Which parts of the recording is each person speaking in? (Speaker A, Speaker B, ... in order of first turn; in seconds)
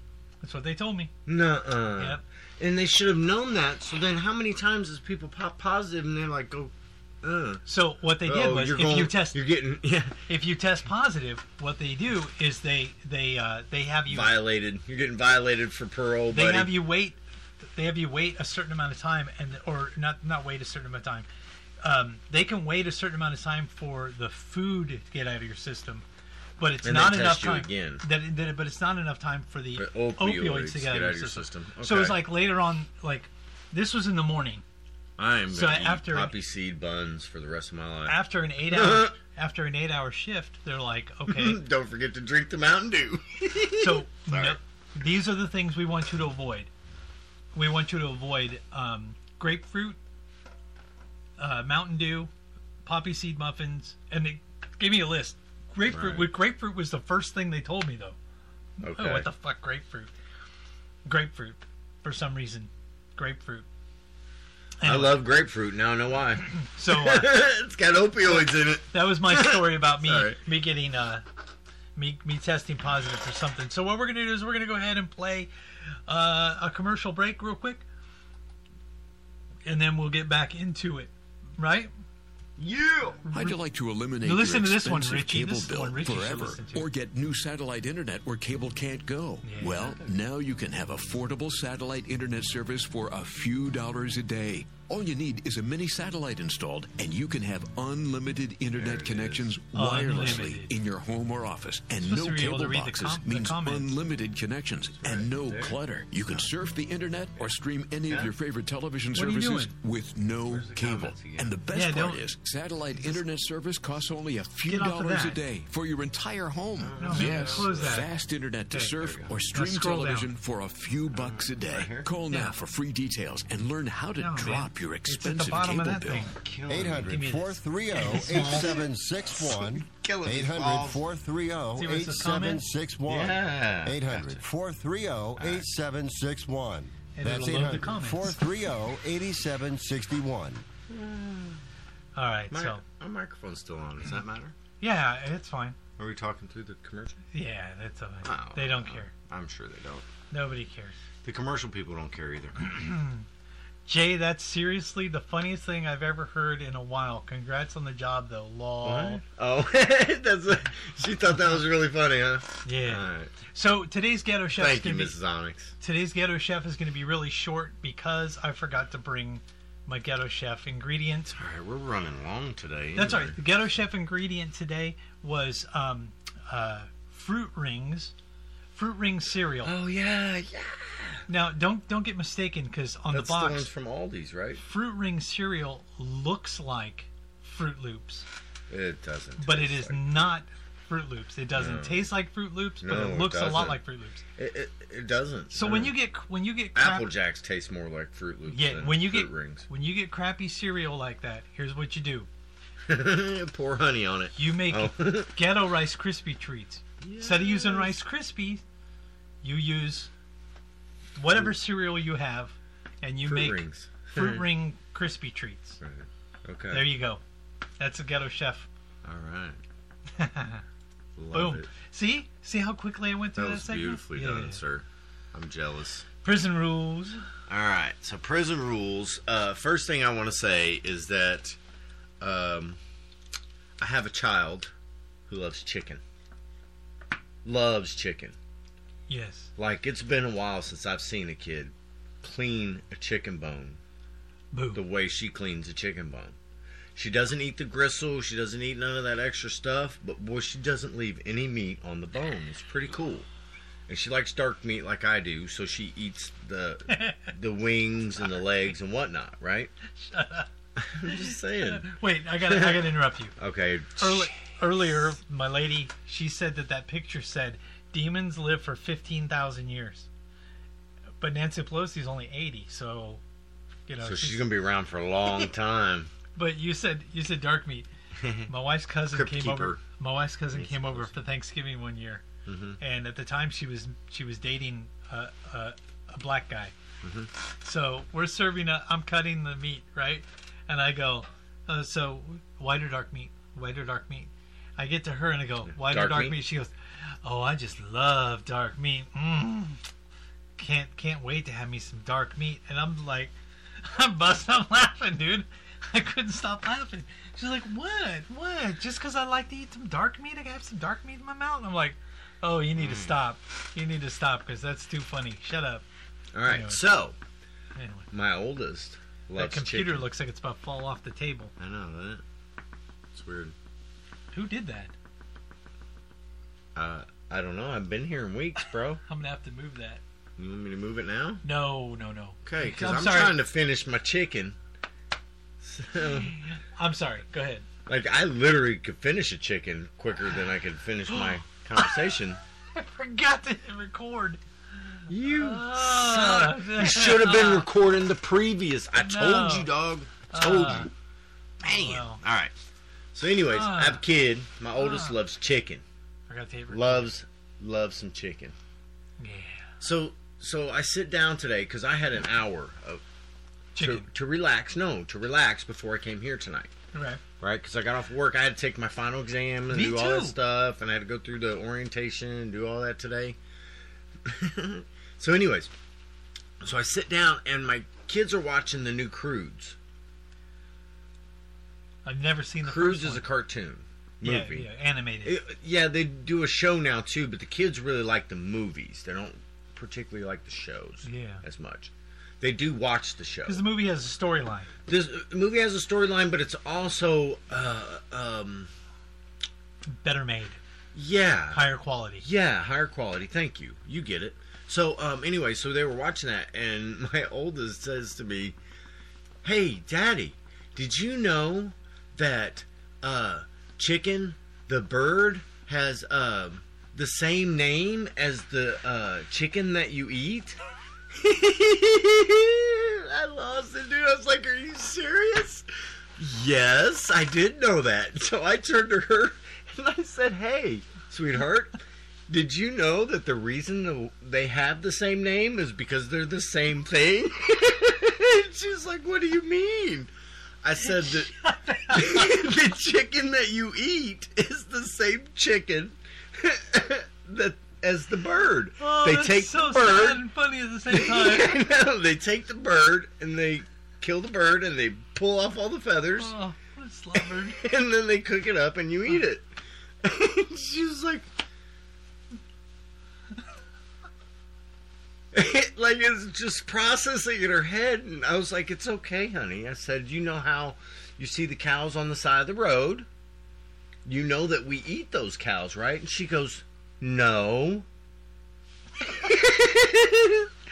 Speaker A: 0.4-1.1, 2.0-2.2, 7.7-9.4, 10.3-14.4, 16.3-21.3, 21.8-26.0, 26.6-34.6, 35.5-36.3, 38.1-41.6, 43.7-46.7, 47.5-50.0, 51.4-52.3, 52.8-58.2, 58.8-60.1, 61.0-63.6, 64.8-65.2, 66.5-67.4, 68.3-71.2, 72.0-77.8, 79.6-81.9, 83.3-83.6, 84.2-86.9, 89.4-89.9, 99.7-100.7, 102.0-103.9, 109.1-109.7, 111.7-112.2, 114.7-115.4, 117.0-118.1, 119.5-120.3, 122.3-122.6, 124.2-126.4, 127.1-128.8, 131.8-132.6, 137.1-138.4, 142.1-142.8, 144.8-145.8, 147.3-149.1, 150.3-150.9, 152.6-153.3, 153.8-159.2, 162.6-165.1, 165.8-171.3, 172.9-178.1, 178.7-179.7, 181.3-183.7, 184.6-188.3, 189.4-194.2, 195.5-197.1, 198.5-202.3, 204.3-208.6, 209.4-210.1, 211.2-215.8, 216.7-217.2, 217.8-218.7, 220.1-220.6, 221.3-224.6, 226.2-227.2, 239.1-239.5, 244.5-244.8, 256.9-257.3, 259.9-260.5, 261.0-263.4, 264.0-270.1, 271.2-273.2, 273.9-274.5, 276.3-277.9, 278.5-282.2, 282.8-286.7, 287.6-299.8, 300.6-315.8, 316.4-316.8, 317.7-318.1, 319.4-321.5, 324.3-324.9, 329.0-330.0, 331.4-333.4, 335.9-337.6, 341.1-342.1, 342.7-347.7, 348.9-349.7, 350.3-350.9, 351.6-352.2, 353.5-354.0, 354.8-355.2, 356.3-357.1, 359.2-359.7, 363.7-364.1, 366.9-367.2, 369.7-370.4, 382.0-383.2, 384.2-385.4, 391.0-391.4, 393.4-394.7, 399.9-400.6, 401.5-402.2, 440.8-442.4, 448.8-451.6, 456.2-457.6
Speaker B: 1.2-7.6, 8.2-10.3, 14.1-16.7, 26.8-28.0, 29.8-32.2, 35.2-39.1, 41.3-44.6, 55.9-56.3, 58.8-59.3, 64.8-70.4, 82.6-83.2, 89.8-90.1, 98.7-99.5, 105.0-105.8, 110.5-111.5, 116.8-118.0, 119.0-119.3, 121.1-122.1, 126.3-127.2, 128.0-131.0, 133.1-134.4, 135.4-135.7, 140.9-141.6, 142.5-144.6, 146.0-147.2, 148.2-150.1, 151.2-152.6, 158.8-163.4, 164.6-165.7, 171.3-173.4, 179.6-181.2, 183.1-184.6, 188.7-190.3, 191.5-192.1, 192.8-193.8, 194.4-195.9, 196.7-199.7, 202.9-205.3, 207.0-207.9, 213.2-214.4, 215.8-216.9, 219.0-219.6, 221.2-221.7, 223.3-226.1, 227.5-231.6, 232.2-232.8, 233.8-234.7, 235.3-236.0, 237.4-238.3, 239.6-243.8, 244.7-246.3, 246.9-253.3, 253.9-259.7, 260.8-261.9, 262.4-264.4, 274.0-276.1, 278.2-278.5, 279.1-279.8, 280.5-281.1, 282.4-282.8, 287.0-287.3, 295.7-296.4, 312.8-313.1, 316.3-317.1, 318.1-320.1, 321.6-322.2, 323.1-323.5, 326.7-329.0, 330.4-331.4, 332.4-334.6, 335.6-336.4, 337.9-342.4, 345.1-350.9, 351.6-352.5, 353.1-355.8, 356.7-358.5, 359.8-363.0, 363.8-366.7, 367.4-373.4, 374.2-375.7, 376.6-379.8, 382.6-384.7, 385.2-393.6, 394.9-398.7, 400.9-401.6, 402.2-408.6, 409.4-420.6, 421.1-431.8, 432.3-440.1, 440.6-441.3, 441.9-450.2, 450.9-456.3, 457.1-459.5, 460.0-461.3, 465.3-473.1, 474.1-477.9, 479.0-480.5
Speaker C: 83.3-126.3
Speaker D: 126.7-140.6